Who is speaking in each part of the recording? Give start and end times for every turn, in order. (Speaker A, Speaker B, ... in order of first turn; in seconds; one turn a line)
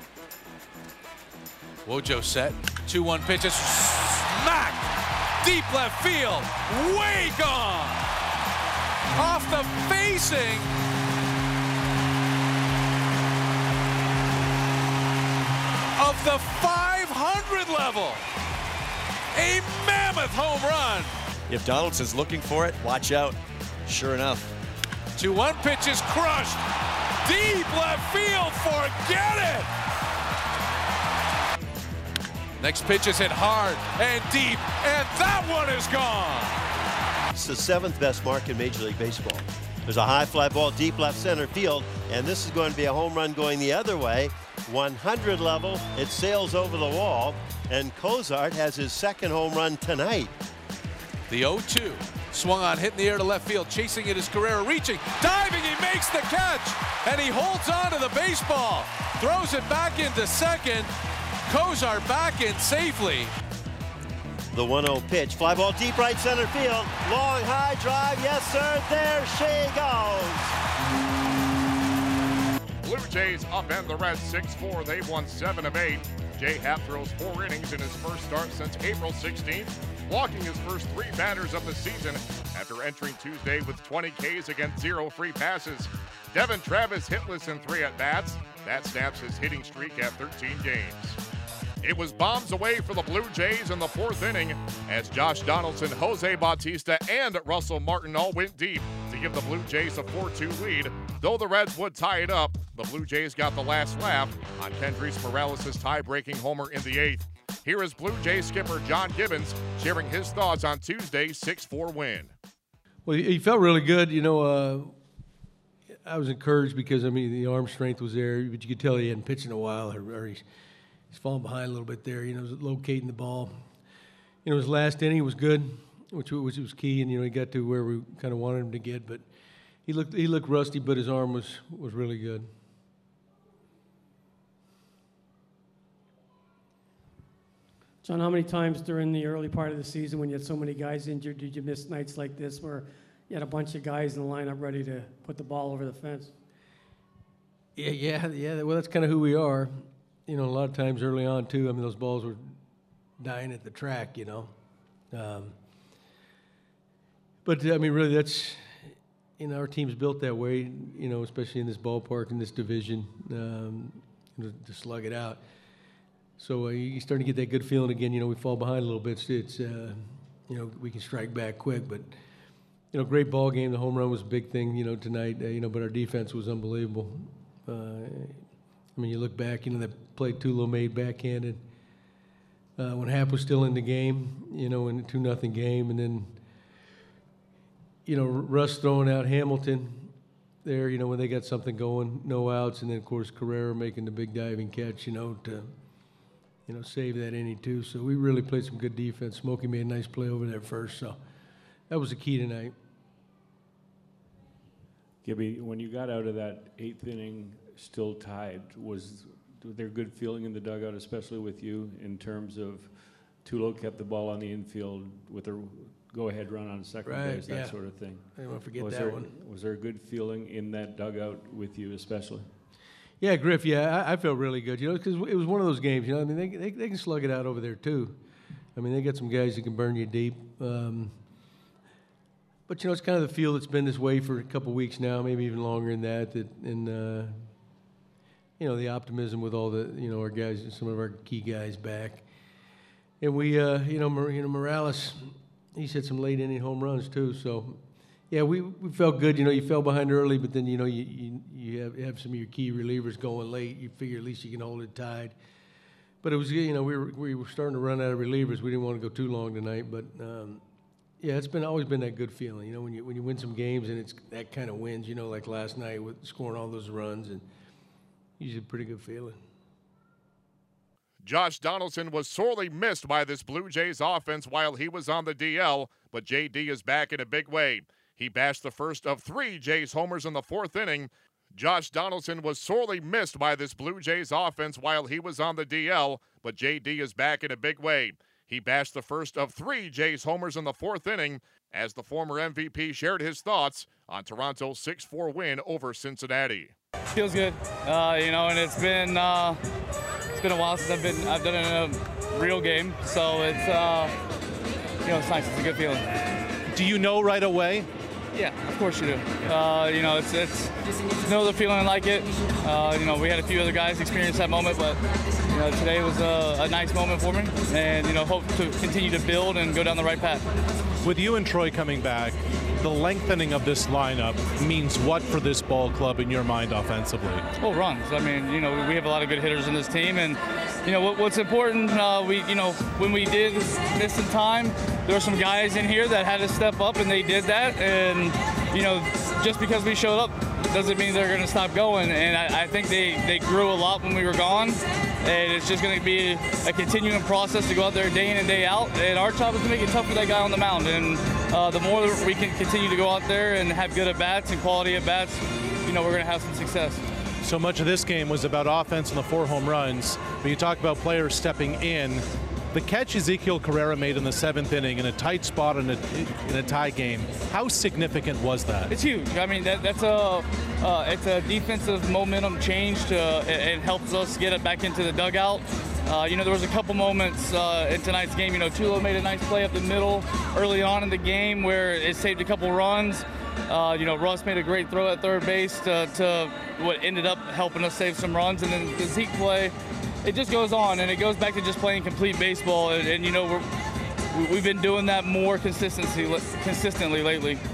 Speaker A: 1.9-8.0
Speaker A: 9.2-10.7
Speaker A: 16.0-18.2
Speaker A: 19.3-21.1
Speaker B: 21.5-24.5
Speaker A: 25.2-26.6
Speaker A: 27.2-29.7
Speaker A: 32.6-36.6
Speaker C: 37.4-50.3
Speaker A: 51.3-60.9
Speaker A: 61.5-63.3
Speaker C: 64.5-70.5
Speaker D: 72.8-91.2
Speaker D: 91.8-112.3
Speaker E: 113.0-114.9
Speaker E: 116.0-120.4
Speaker E: 121.1-123.6
Speaker E: 124.4-129.2
Speaker E: 129.9-132.5
Speaker F: 138.0-146.3
Speaker E: 147.8-149.7
Speaker E: 150.3-152.5
Speaker E: 153.2-154.5
Speaker E: 155.1-155.6
Speaker E: 157.4-165.4
Speaker E: 166.4-172.1
Speaker E: 172.9-178.4
Speaker E: 178.9-181.6
Speaker E: 182.8-186.4
Speaker E: 188.1-190.1
Speaker E: 190.6-195.7
Speaker E: 196.7-201.2
Speaker E: 201.9-202.7
Speaker G: 205.2-222.5
Speaker E: 217.1-219.3
Speaker E: 223.2-228.2
Speaker E: 228.8-231.1
Speaker E: 232.7-237.5
Speaker E: 238.6-242.2
Speaker E: 243.2-255.3
Speaker E: 256.2-260.6
Speaker E: 261.2-267.5
Speaker E: 268.4-269.4
Speaker D: 271.2-296.7
Speaker H: 297.1-299.6
Speaker H: 300.4-304.1
Speaker H: 305.1-306.1
Speaker I: 306.7-307.9
Speaker H: 308.3-310.7
Speaker H: 311.2-320.4
Speaker I: 321.0-327.4
Speaker H: 327.6-357.0
Speaker I: 357.4-368.9
Speaker H: 368.9-393.7
Speaker H: 394.3-397.6